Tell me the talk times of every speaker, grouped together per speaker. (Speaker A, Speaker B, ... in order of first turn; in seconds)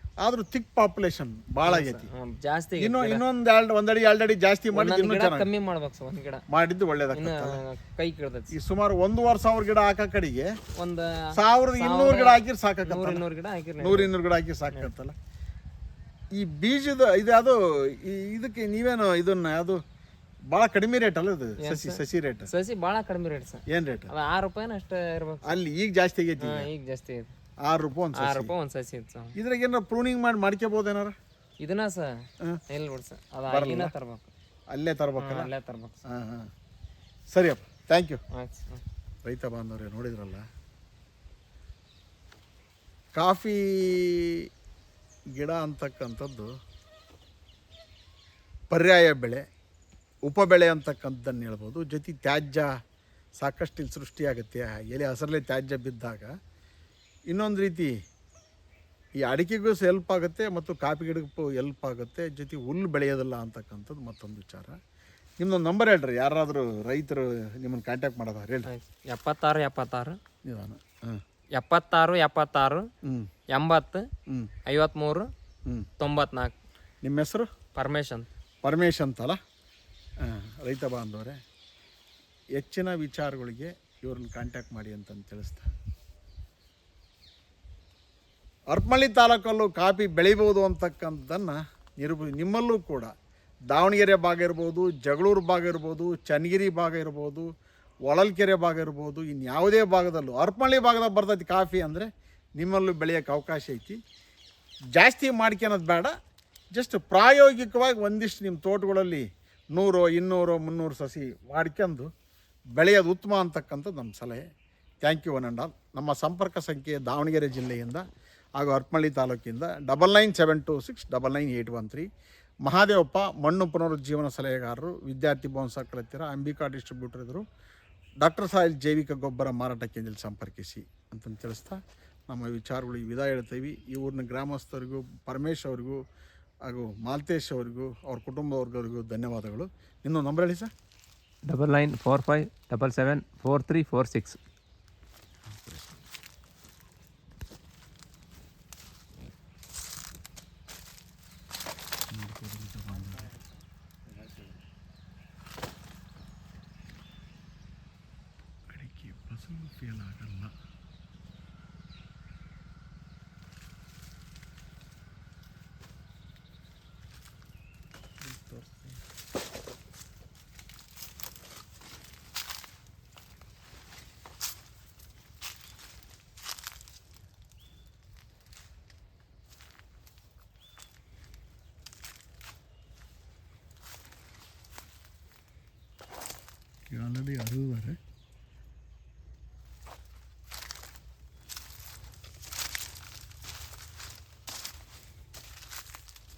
Speaker A: 0.2-2.1, 2.8-5.5, 6.5-7.6, 8.5-10.5, 11.3-13.2, 13.8-15.2, 16.4-19.8, 20.5-22.5, 23.7-24.1, 25.4-26.7, 27.7-28.5, 29.4-31.1, 33.5-33.9, 34.7-35.5, 36.1-36.5, 37.3-38.2, 39.2-40.4, 43.1-44.5, 45.4-46.5, 48.7-49.5, 50.3-52.7, 53.4-56.3, 57.3-57.9, 59.2-64.8, 65.4-68.7, 70.5-71.2, 73.0-73.3, 77.0-77.5, 78.6-79.4, 80.2-81.4, 82.6-85.7, 88.7-93.1, 93.7-97.5, 98.1-104.0, 105.0-106.1, 106.8-112.1, 112.8-114.5, 115.0-118.0, 118.6-122.1, 122.7-127.5, 128.2-136.0, 136.7-140.7, 145.5-145.9, 152.1-153.3, 158.7-160.5, 168.2-169.0, 186.9-188.0
Speaker B: 1.6-3.2, 4.7-6.4, 7.1-8.5, 10.8-14.1, 21.6-25.6, 26.4-27.3, 28.1-29.4, 31.6-32.1, 32.7-34.3, 35.2-36.0, 38.3-38.8, 68.7-70.2, 71.5-72.9, 73.5-74.1, 74.7-75.3, 76.0-76.5, 77.8-78.3
Speaker C: 141.4-144.4